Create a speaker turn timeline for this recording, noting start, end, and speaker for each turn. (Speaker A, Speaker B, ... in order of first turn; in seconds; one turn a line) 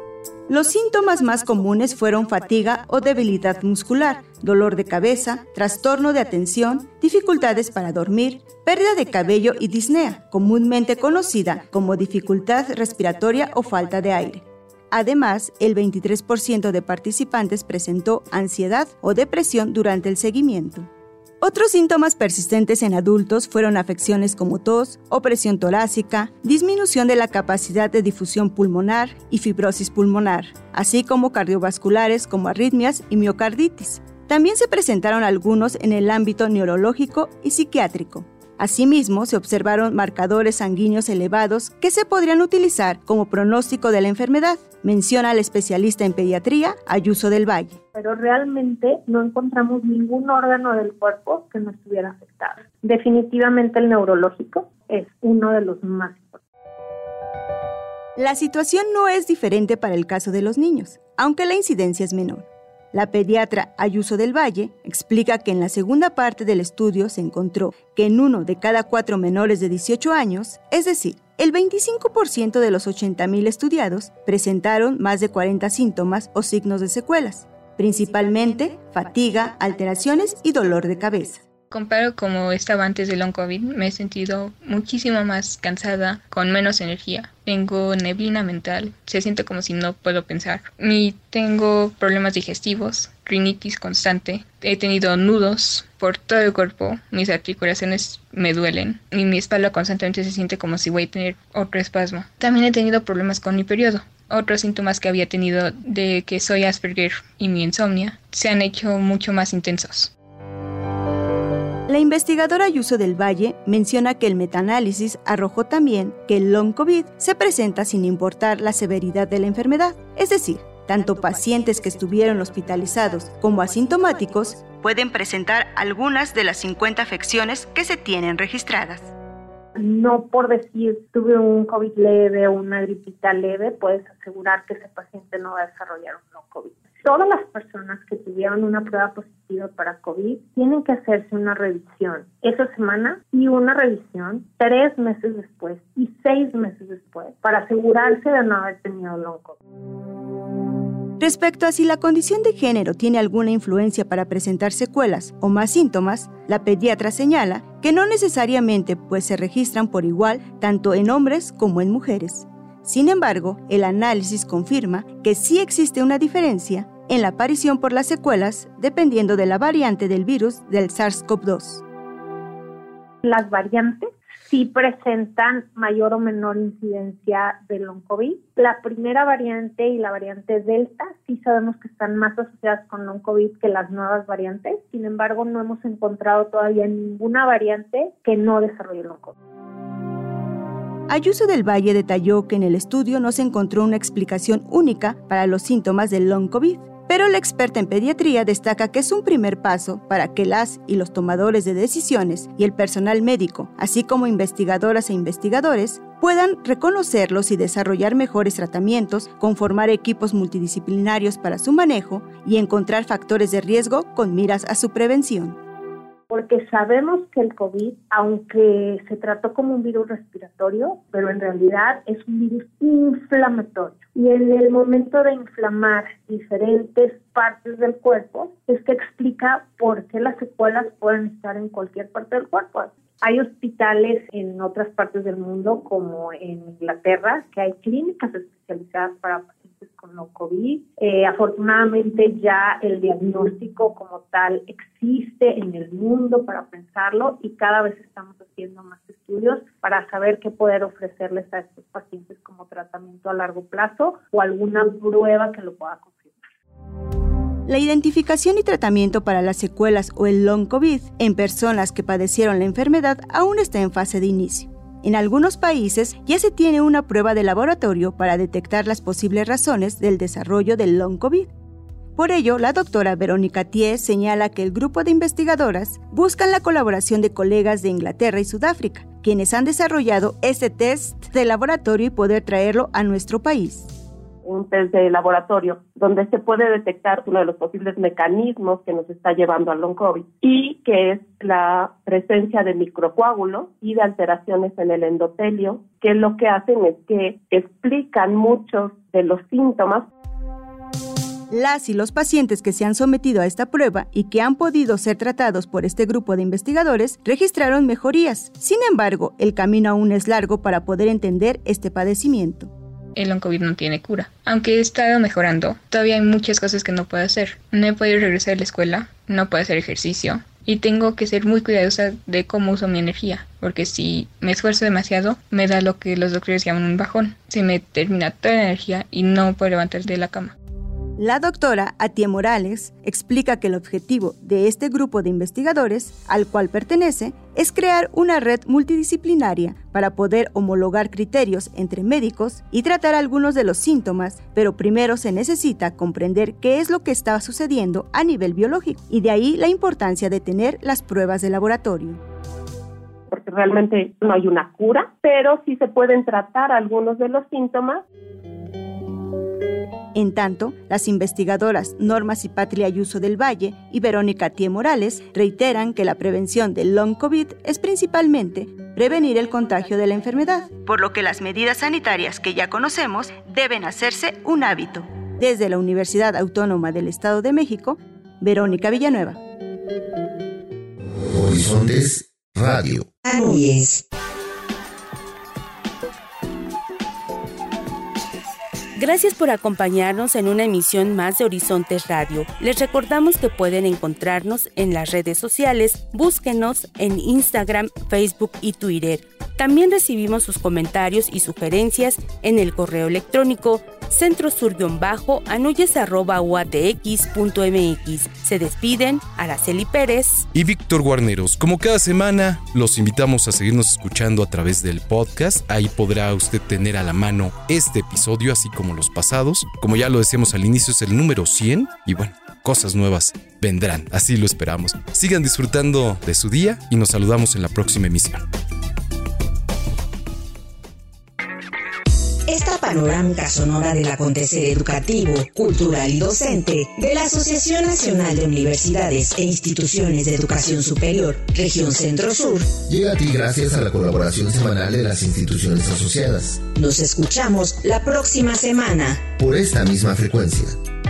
Speaker A: 0.5-20.9
Speaker A: 21.4-47.8
Speaker B: 47.9-56.4
Speaker A: 58.2-81.4
Speaker C: 81.7-110.1
Speaker A: 111.9-129.1
Speaker B: 129.8-149.6
Speaker A: 151.2-171.8
Speaker B: 173.2-189.3
Speaker A: 191.1-215.6
Speaker B: 216.3-256.4
Speaker A: 257.7-271.5
Speaker A: 272.1-283.9
Speaker D: 284.4-300.1
Speaker A: 301.5-312.7
Speaker C: 313.1-330.5
Speaker A: 331.2-352.2
Speaker D: 353.3-358.0
Speaker A: 360.1-379.4
Speaker E: 381.2-383.1
Speaker F: 383.2-384.0
Speaker G: 388.9-410.4
Speaker H: 410.5-428.4
Speaker F: 432.5-442.7
Speaker E: 442.9-446.6
Speaker F: 446.7-449.2
Speaker E: 449.4-450.8